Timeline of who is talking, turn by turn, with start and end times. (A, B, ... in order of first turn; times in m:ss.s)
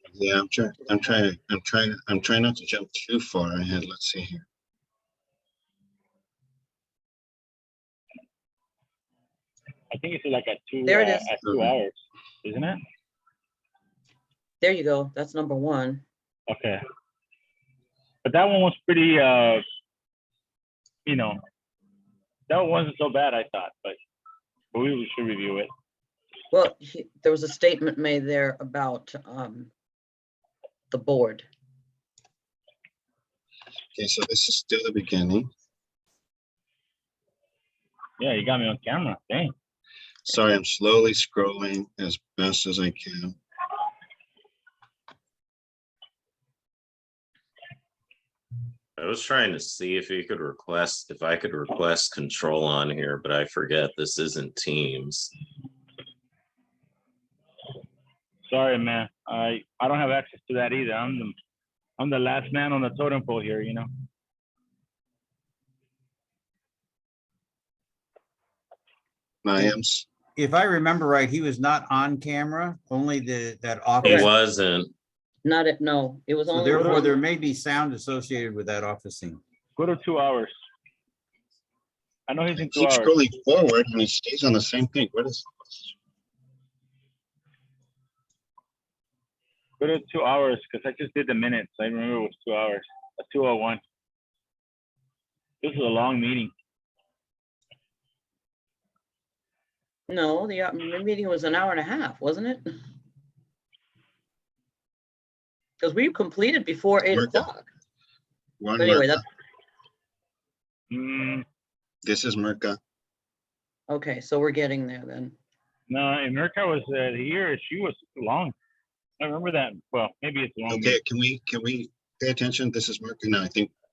0:00.1-0:04.4 A
0:09.9-0:12.8 B
0:10.9-0:11.3 C
0:11.4-0:11.7 A
0:14.6-0:16.0 C
0:16.5-0:16.8 B
0:18.2-0:19.6 B
0:21.1-0:21.4 B
0:22.5-0:24.0 B
0:24.7-0:25.7 B
0:26.5-0:29.7 C
0:30.9-0:31.5 C
0:34.0-0:35.5 A
0:38.2-0:39.5 B
0:40.2-0:43.4 A
0:49.0-0:55.3 D
0:58.5-1:01.4 B
1:02.0-1:03.9 B
1:09.4-1:10.1 A
1:10.4-1:14.3 E
1:14.0-1:14.3 C
1:14.0-1:14.9 D
1:15.4-1:17.2 C
1:16.5-1:19.4 E
1:16.6-1:17.1 B
1:19.8-1:20.5 B
1:22.3-1:23.2 B
1:22.5-1:25.9 A
1:29.8-1:33.8 B
1:35.6-1:36.5 B
1:40.1-1:42.7 C
1:45.8-1:47.7 C
1:47.1-1:47.5 A
1:48.6-1:49.2 A
1:48.8-1:49.2 C
1:50.9-1:51.4 B
1:52.0-1:52.8 A
1:53.9-1:55.4 C
1:55.9-1:58.6 B
1:59.2-2:01.0 B
2:00.7-2:03.7 A